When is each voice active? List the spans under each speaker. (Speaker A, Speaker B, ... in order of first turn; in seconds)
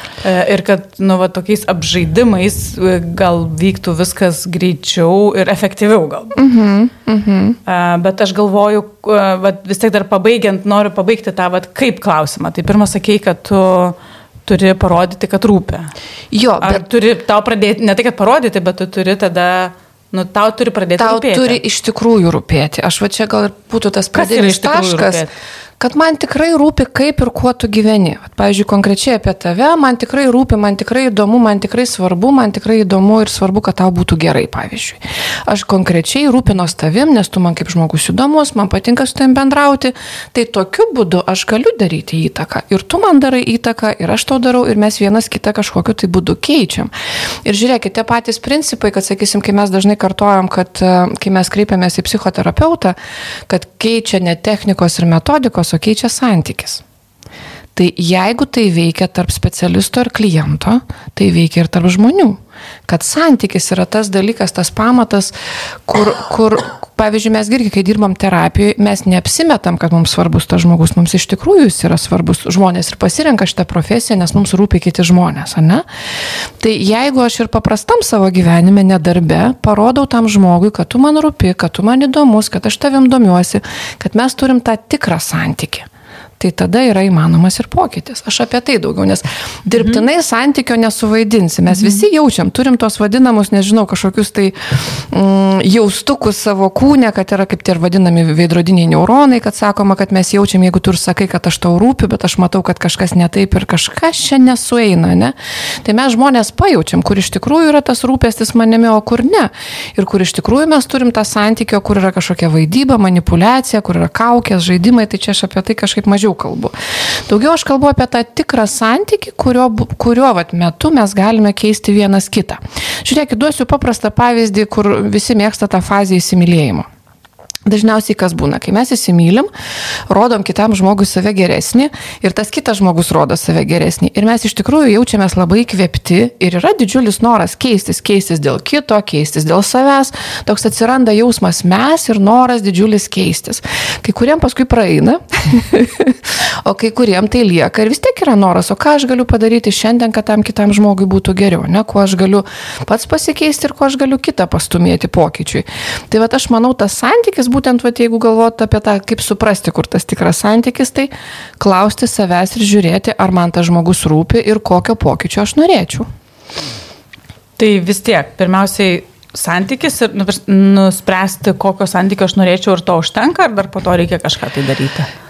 Speaker A: 0.2-6.4, 7.7-15.9, 16.6-21.6, 24.1-25.3, 167.6-175.1
Speaker B: 6.4-7.6, 16.3-16.8, 21.0-25.2, 25.8-46.9, 47.4-53.0, 53.5-56.8, 57.8-65.3, 65.9-75.8, 76.6-85.8, 86.4-116.7, 117.3-126.9, 127.7-129.5, 130.1-166.1